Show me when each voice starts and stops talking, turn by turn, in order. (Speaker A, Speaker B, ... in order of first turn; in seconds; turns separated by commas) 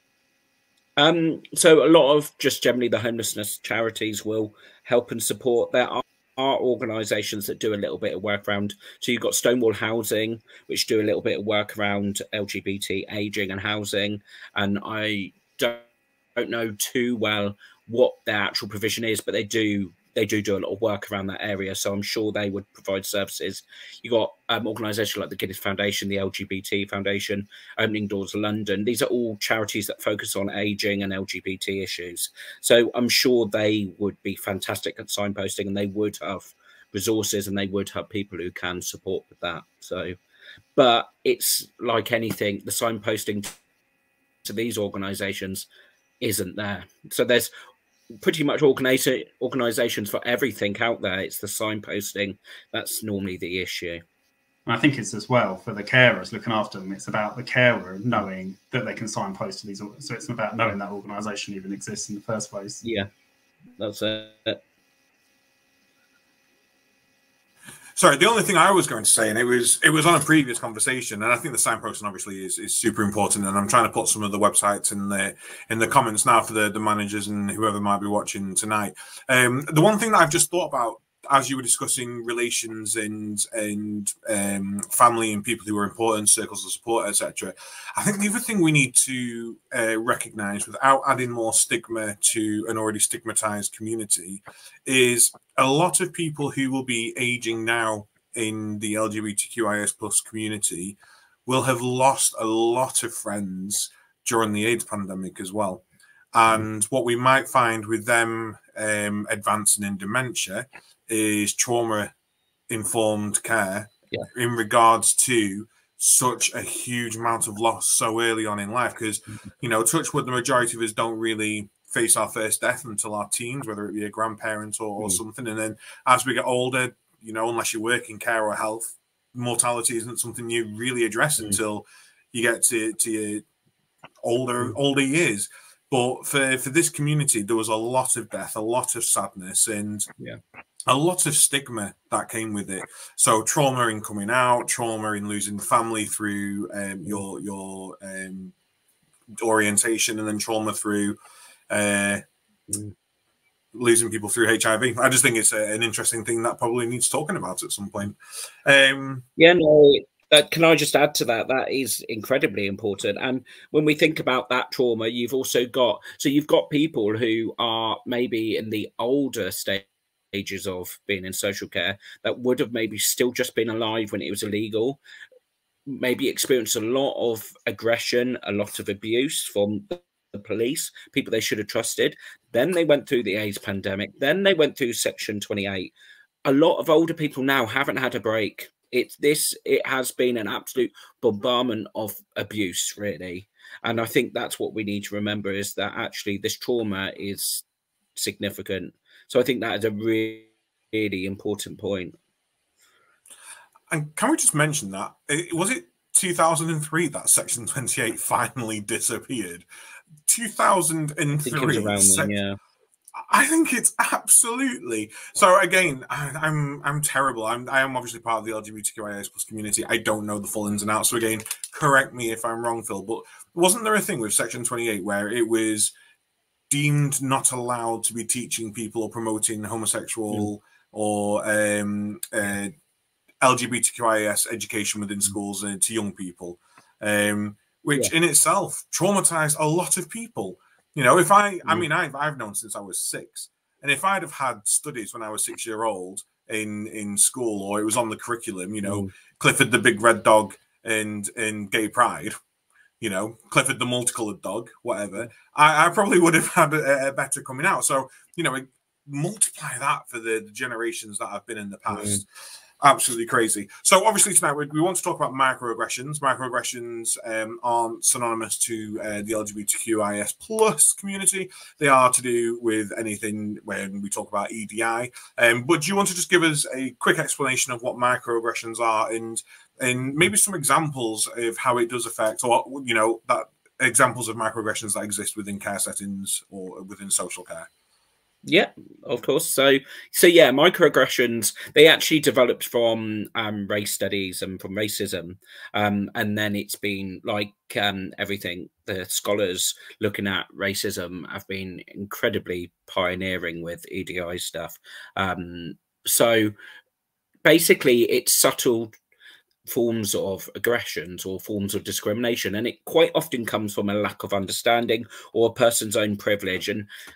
Speaker A: 1.0-40.1, Speaker A: 40.8-43.6, Speaker A: 44.4-45.7, Speaker A: 46.2-47.5, Speaker A: 48.2-54.0, Speaker B: 54.6-62.8, Speaker A: 62.8-63.1, Speaker A: 63.8-64.6, Speaker C: 68.0-112.1, Speaker C: 112.7-133.4, Speaker C: 134.2-140.1, Speaker C: 140.9-148.5, Speaker C: 149.4-151.2, Speaker C: 151.7-152.2, Speaker C: 153.7-159.3, Speaker A: 159.4-175.0, Speaker A: 175.9-185.9, Speaker A: 186.4-197.6, Speaker A: 198.2-202.1, Speaker C: 203.9-209.7, Speaker C: 210.2-212.3, Speaker A: 211.4-212.6, Speaker C: 213.3-225.9, Speaker C: 226.7-232.7, Speaker C: 233.4-252.4, Speaker A: 248.8-249.1, Speaker C: 253.0-262.2, Speaker A: 261.9-262.2, Speaker C: 262.8-287.7, Speaker A: 288.4-306.5, Speaker A: 307.4-308.9, Speaker A: 309.6-316.9